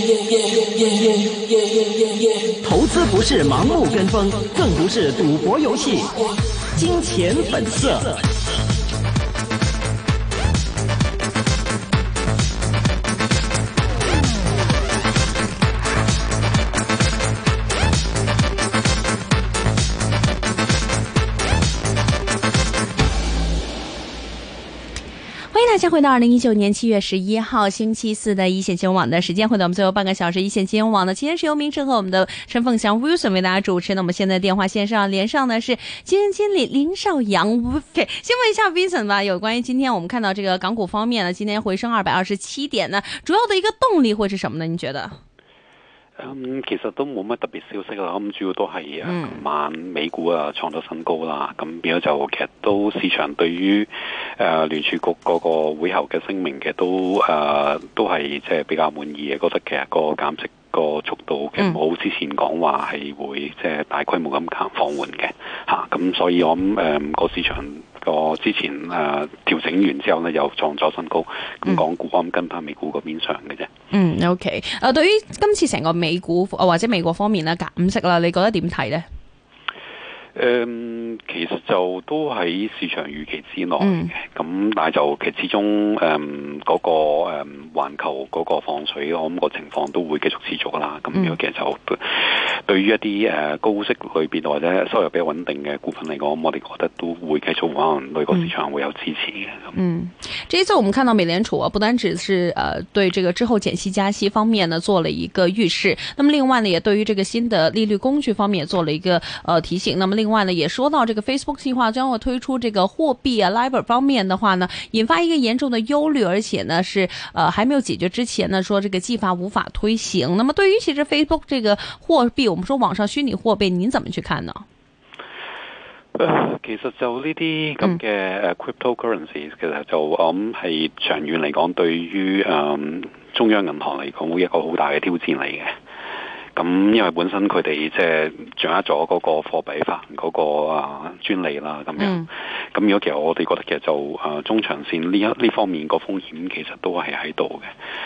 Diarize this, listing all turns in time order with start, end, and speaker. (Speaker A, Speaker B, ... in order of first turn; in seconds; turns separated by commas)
Speaker A: 2.6-6.2, Speaker A: 6.8-8.2, Speaker B: 25.5-45.2, Speaker C: 46.2-73.7, Speaker B: 49.0-49.4, Speaker B: 73.9-79.1, Speaker C: 80.3-99.7, Speaker B: 83.8-84.1, Speaker B: 99.7-124.7, Speaker C: 126.2-135.8, Speaker C: 136.6-147.7, Speaker B: 142.0-142.3